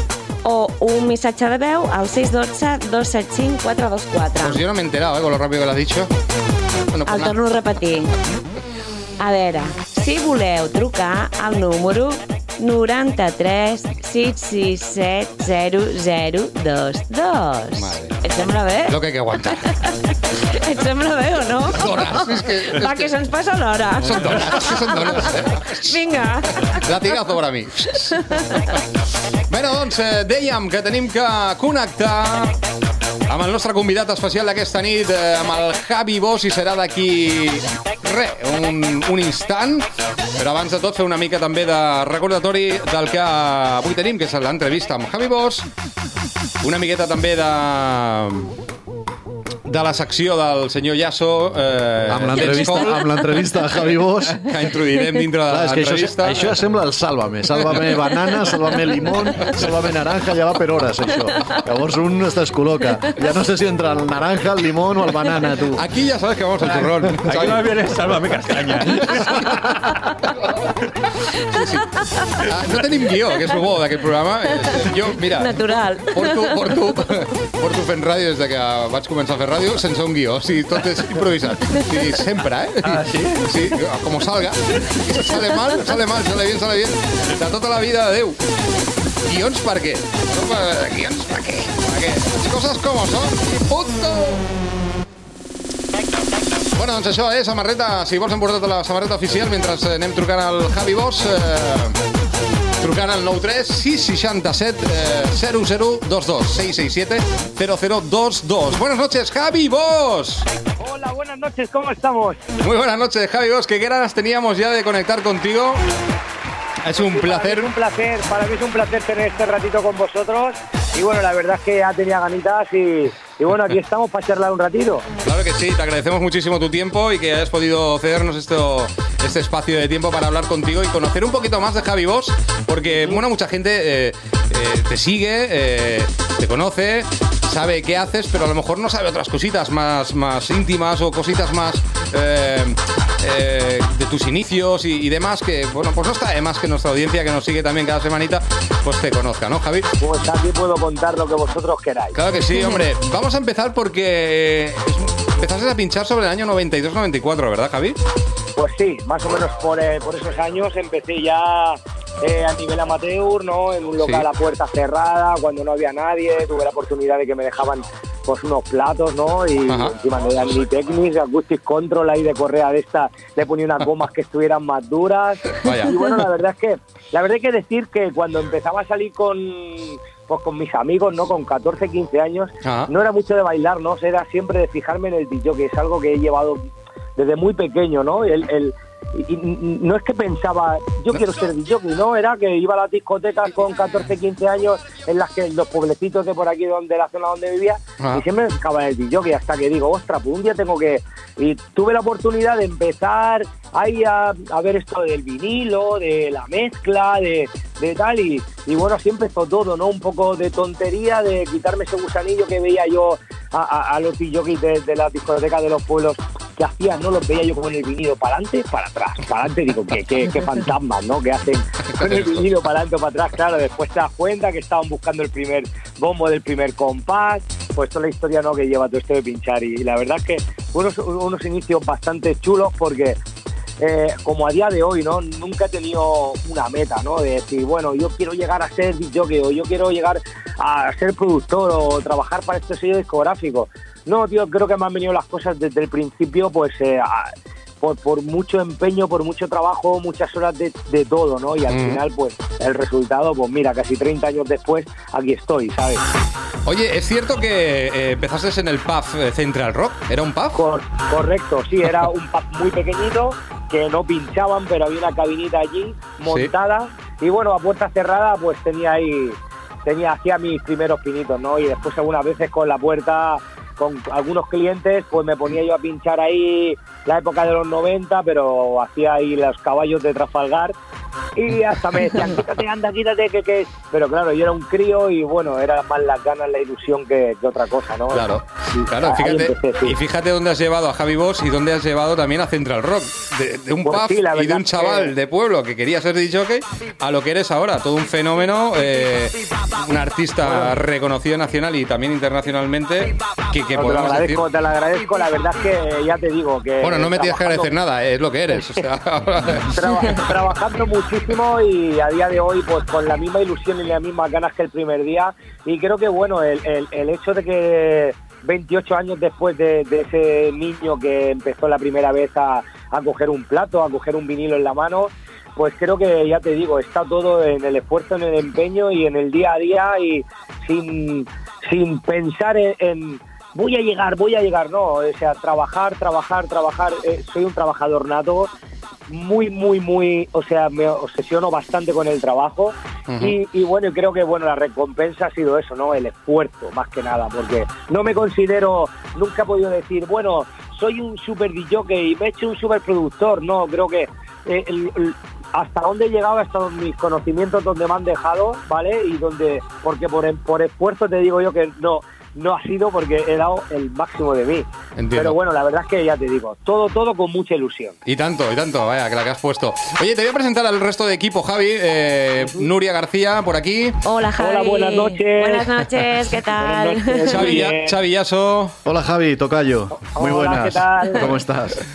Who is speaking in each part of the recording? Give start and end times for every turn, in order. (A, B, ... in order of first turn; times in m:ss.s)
0:00.4-0:04.6 A
0:04.4-0:06.1 B
0:06.9-0:07.4 B
0:07.1-0:08.1 A
0:09.2-0:19.0 A
0:17.8-0:18.2 B
0:18.9-0:19.7 B
0:20.5-0:26.8 A
0:21.7-0:23.1 B
0:24.0-0:26.0 B
0:26.6-0:28.4 B
0:29.5-0:32.6 B
0:33.3-0:39.8 B
0:40.4-0:45.7 B
0:46.6-0:48.5 B
0:49.7-0:56.5 B
0:52.1-0:54.6 C
0:55.5-1:05.8 C
1:05.8-1:07.8 B
1:06.7-1:09.6 D
1:08.5-1:09.6 B
1:11.5-1:28.4 B
1:15.3-1:16.8 A
1:22.8-1:23.6 D
1:29.2-1:34.5 B
1:36.8-1:42.0 B
1:42.8-1:50.5 B
1:50.8-1:52.4 E
1:52.6-1:55.8 B
1:56.8-1:57.7 B
1:56.9-2:05.1 E
2:05.2-2:29.9 B
2:30.0-2:32.2 E
2:32.2-2:38.0 B
2:38.6-3:06.6 E
2:44.0-2:44.3 B
2:49.7-2:49.9 B
2:55.6-2:56.2 B
3:02.6-3:02.9 B
3:07.2-3:53.2 E
3:41.9-3:42.4 B
3:53.8-4:16.0 E
4:11.7-4:12.0 B
4:16.7-4:20.6 B
4:20.5-4:40.7 E
4:26.3-4:26.5 B
4:41.4-4:50.0 E
4:48.1-5:04.4 B
4:53.8-4:55.1 E
5:00.5-5:00.7 E
5:03.8-5:07.7 E
5:06.8-5:10.4 B
5:09.7-5:38.5 E
5:39.1-6:08.0 E
5:43.1-5:43.4 B
6:05.0-6:05.4 B
6:08.0-6:14.0 B
6:14.0-6:17.6 A
6:14.4-6:15.7 E
6:16.6-6:18.0 E
6:17.3-6:18.8 B
6:18.8-6:21.8 C
6:20.0-6:21.3 E